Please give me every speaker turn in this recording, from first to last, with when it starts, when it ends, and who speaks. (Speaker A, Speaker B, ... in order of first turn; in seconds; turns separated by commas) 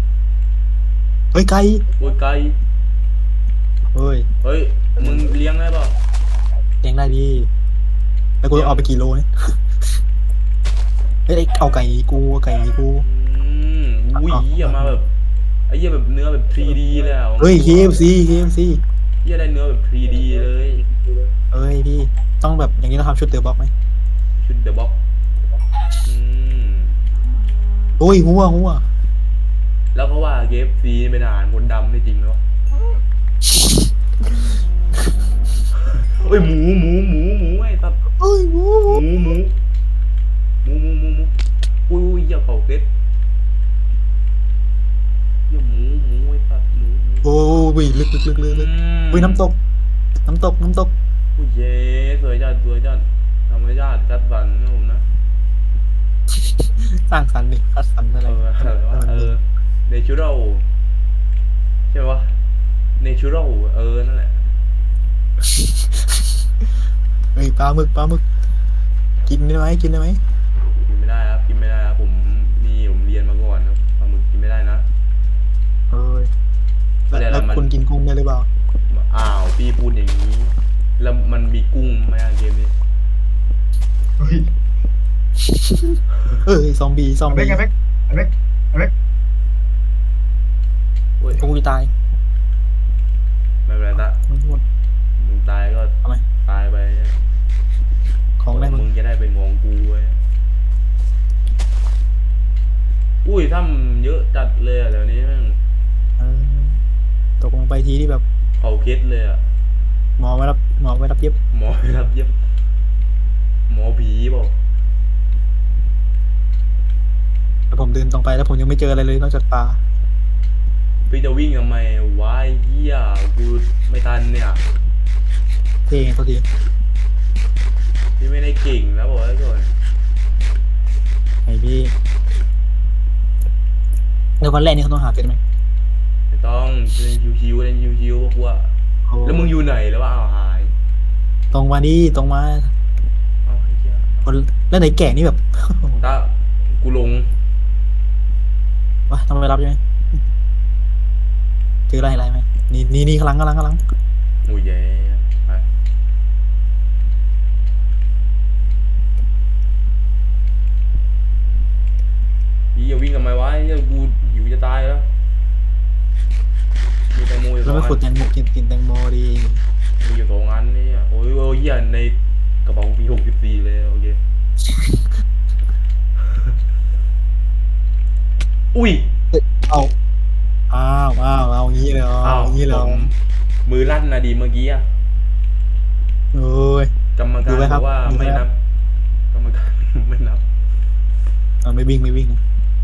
Speaker A: 1.3-1.9, Speaker B: 2.0-2.6, Speaker A: 3.9-4.3, Speaker B: 4.4-6.0, Speaker A: 5.0-5.2, Speaker A: 6.8-7.5, Speaker A: 8.4-9.6, Speaker B: 8.5-8.9, Speaker A: 11.3-13.1, Speaker B: 13.0-15.1, Speaker A: 14.2-15.0, Speaker B: 15.7-18.1, Speaker A: 17.4-18.8, Speaker B: 19.2-20.8, Speaker A: 21.5-23.7, Speaker B: 24.4-24.9, Speaker B: 26.0-27.0, Speaker A: 28.0-28.9, Speaker B: 29.9-32.4, Speaker B: 35.9-38.0, Speaker A: 38.2-39.0, Speaker B: 38.8-39.5, Speaker B: 40.6-41.3, Speaker B: 41.9-42.9, Speaker B: 45.5-47.7, Speaker A: 47.2-49.6, Speaker B: 48.4-49.5, Speaker A: 50.2-50.9, Speaker B: 51.4-55.0, Speaker A: 56.6-59.3, Speaker B: 58.2-60.6, Speaker B: 61.9-62.4, Speaker B: 63.0-64.4, Speaker A: 67.3-68.2, Speaker A: 69.2-70.2, Speaker B: 70.8-74.8, Speaker A: 75.9-76.3, Speaker A: 77.1-78.5, Speaker B: 77.1-77.7, Speaker B: 78.9-82.7, Speaker C: 84.2-84.5, Speaker A: 85.5-87.6, Speaker C: 87.3-88.9, Speaker B: 91.2-91.5, Speaker A: 91.3-91.9, Speaker B: 93.7-94.2, Speaker A: 94.2-94.6, Speaker B: 95.2-97.2, Speaker A: 98.4-98.9, Speaker B: 98.5-100.2, Speaker B: 103.2-105.6, Speaker A: 106.2-106.8, Speaker A: 107.4-108.2, Speaker B: 108.6-109.4, Speaker A: 110.2-111.4, Speaker B: 111.5-112.3, Speaker B: 113.7-114.5, Speaker A: 117.7-119.8, Speaker B: 121.1-124.6, Speaker A: 125.9-126.5, Speaker B: 128.2-129.7, Speaker A: 131.4-131.9, Speaker A: 134.4-135.4, Speaker B: 136.3-138.7, Speaker A: 139.1-139.5, Speaker B: 139.2-140.7, Speaker A: 141.5-142.7, Speaker B: 143.4-144.3, Speaker A: 144.2-146.1, Speaker B: 146.0-147.3, Speaker A: 149.1-149.8, Speaker A: 151.9-153.8, Speaker B: 154.4-155.6, Speaker B: 162.7-165.1, Speaker B: 167.1-168.0, Speaker A: 167.6-169.6, Speaker B: 170.0-174.2, Speaker B: 178.7-179.1, Speaker A: 179.3-179.9, Speaker A: 180.7-183.1, Speaker B: 182.2-183.1, Speaker B: 183.7-184.8, Speaker A: 186.3-186.9, Speaker B: 187.2-188.5, Speaker A: 187.4-188.4, Speaker B: 189.3-190.4, Speaker A: 191.6-192.4